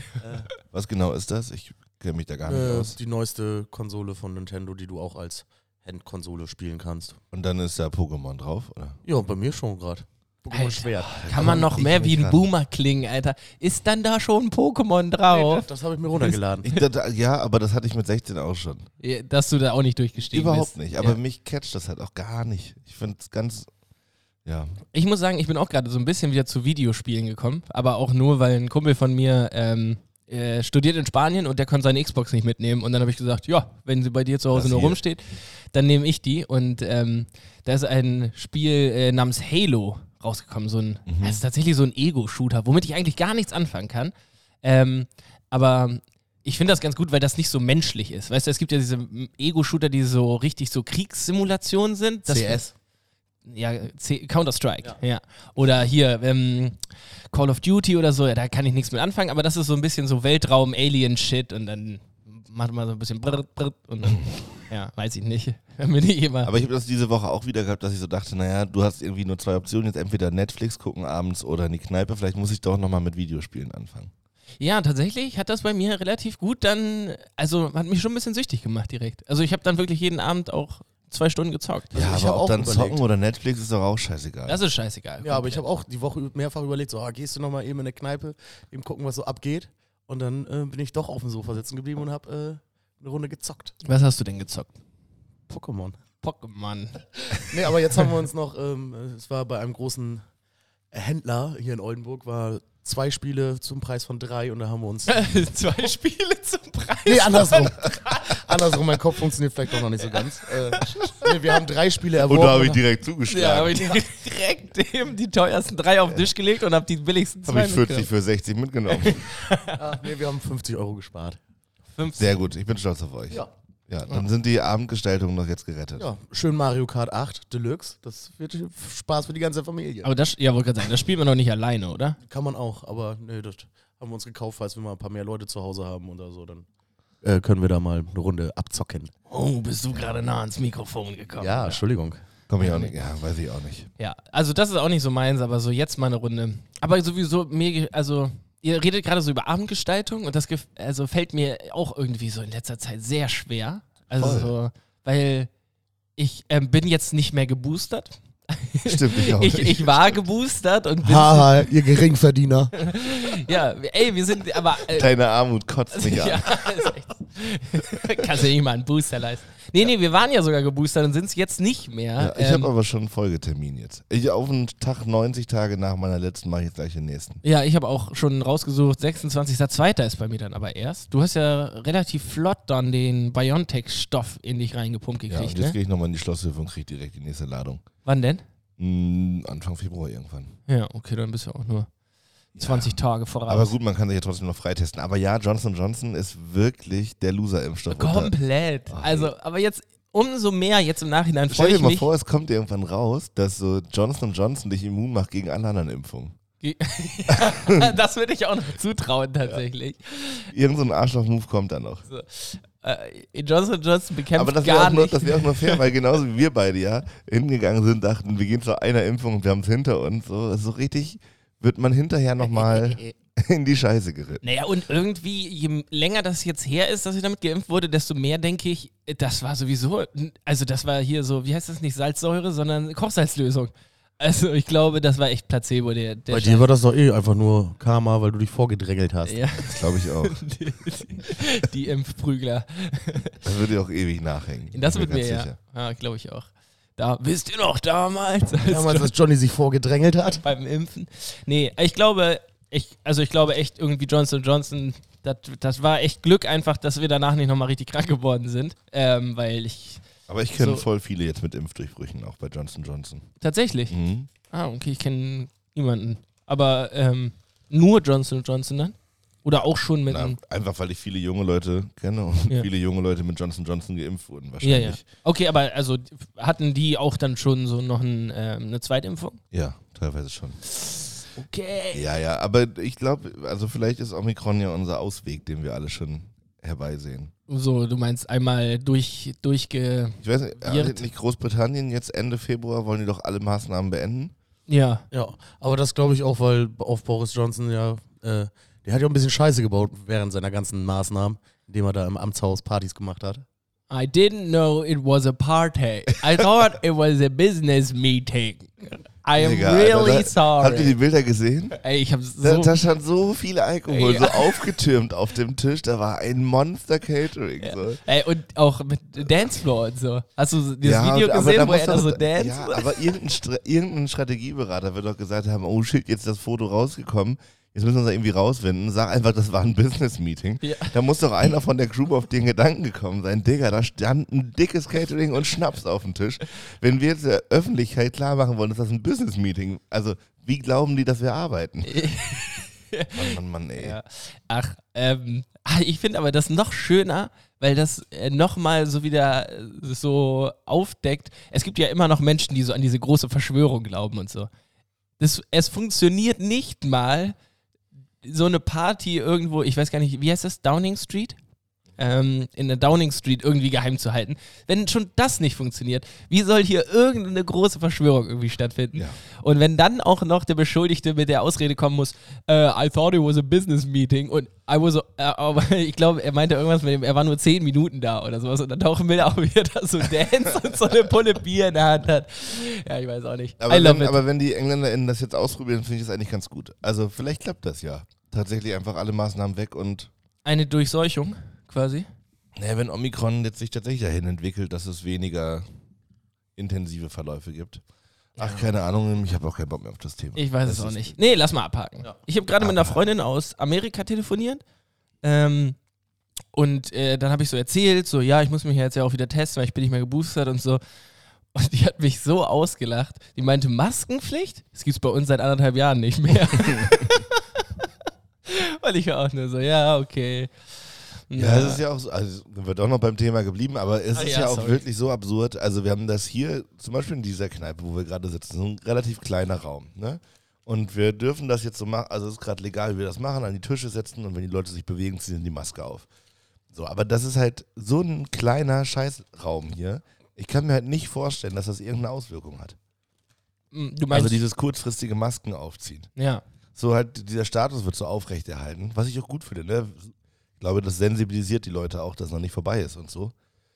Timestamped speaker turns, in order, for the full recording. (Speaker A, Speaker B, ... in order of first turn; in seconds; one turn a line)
Speaker A: 0.2-0.5
Speaker B: 0.7-3.0
Speaker A: 2.5-7.2
Speaker B: 7.3-9.0
Speaker A: 9.0-11.7
Speaker C: 10.5-15.6
Speaker B: 11.2-12.5
Speaker A: 15.3-16.7
Speaker C: 16.2-16.8
Speaker B: 16.6-18.9
Speaker C: 19.0-21.2
Speaker B: 20.3-23.7
Speaker B: 24.4-24.8
Speaker C: 24.9-52.6
Speaker B: 34.5-35.0
Speaker B: 41.1-41.4
Speaker A: 52.2-52.7
Speaker C: 53.5-66.5
Speaker B: 66.4-74.1
Speaker C: 74.6-81.9
Speaker A: 81.9-83.0
Speaker B: 81.9-84.6
Speaker C: 84.5-85.6
Speaker A: 85.2-93.7
Speaker C: 93.8-94.8
Speaker A: 95.5-96.0
Speaker C: 96.2-97.7
Speaker A: 97.4-100.2
Speaker A: 100.9-105.3
Speaker C: 105.1-108.4
Speaker A: 107.0-112.8
Speaker C: 110.0-110.2
Speaker C: 110.8-111.1
Speaker B: 112.2-113.8
Speaker C: 113.3-118.1
Speaker B: 117.5-119.2
Speaker C: 118.9-119.8
Speaker A: 119.7-121.4
Speaker C: 122.0-122.4
Speaker B: 122.2-126.0
Speaker A: 126.0-130.1
Speaker C: 130.0-132.2
Speaker A: 132.2-136.7
Speaker A: 137.2-139.1
Speaker C: 139.3-141.8
Speaker A: 141.4-142.2
Speaker B: 142.5-143.9
Speaker C: 142.6-142.9
Speaker C: 144.0-155.5
Speaker B: 154.1-154.5
Speaker C: 156.2-161.7
Speaker B: 158.8-160.1
Speaker A: 161.0-162.7
Speaker C: 162.8-165.1
Speaker B: 164.9-166.8
Speaker C: 165.9-172.7
Speaker B: 172.2-177.4
Speaker C: 177.4-185.8
Speaker B: 185.3-187.8
Speaker C: 188.0-188.4
Speaker B: 188.8-190.6
Speaker C: 190.7-191.9
Speaker B: 192.6-192.9
Speaker C: 192.6-193.7
Speaker B: 193.5-198.3
Speaker C: 197.9-202.1
Speaker B: 198.9-199.3
Speaker B: 201.5-206.3
Speaker C: 206.6-210.5
Speaker B: 207.3-207.9
Speaker B: 210.5-212.0
Speaker C: 212.1-215.8
Speaker B: 214.3-224.4
Speaker C: 222.6-222.9
Speaker C: 224.4-236.7
Speaker A: 236.3-239.4
Speaker C: 239.2-243.4
Speaker B: 239.6-240.4
Speaker B: 243.4-245.5
Speaker C: 244.7-249.1
Speaker A: 248.6-250.4
Speaker C: 250.4-260.8
Speaker B: 260.3-263.3
Speaker C: 263.4-270.4
Speaker B: 263.9-264.3
Speaker B: 270.1-275.0
Speaker C: 274.6-279.4
Speaker B: 279.5-280.6
Speaker C: 281.3-282.0
Speaker B: 281.9-287.3
Speaker C: 287.5-291.1
Speaker B: 290.2-294.3
Speaker C: 294.7-295.0
Speaker A: 295.1-303.4
Speaker C: 303.9-310.9
Speaker B: 309.4-311.8
Speaker C: 311.8-312.8
Speaker B: 312.4-318.0
Speaker C: 313.9-314.5
Speaker C: 317.6-323.0
Speaker B: 320.8-342.0
Speaker C: 330.6-330.9
Speaker C: 341.8-354.5
Speaker B: 343.1-344.0
Speaker C: 355.2-357.3
Speaker C: 358.2-361.4
Speaker C: 362.0-384.2
Speaker B: 383.6-390.1
Speaker C: 390.4-392.1
Speaker B: 392.6-395.6
Speaker B: 396.6-397.8
Speaker B: 398.4-401.2
Speaker C: 398.4-398.6
Speaker C: 400.4-404.6
Speaker B: 402.6-403.0
Speaker C: 405.2-405.8
Speaker C: 406.5-410.8
Speaker C: 411.5-417.6
Speaker B: 416.6-416.9
Speaker C: 418.4-420.5
Speaker C: 421.3-421.8
Speaker B: 421.3-436.1
Speaker C: 424.1-424.8
Speaker B: 436.7-442.8
Speaker C: 443.7-444.4
Speaker B: 444.1-446.1
Speaker C: 446.1-446.4
Speaker B: 446.8-453.3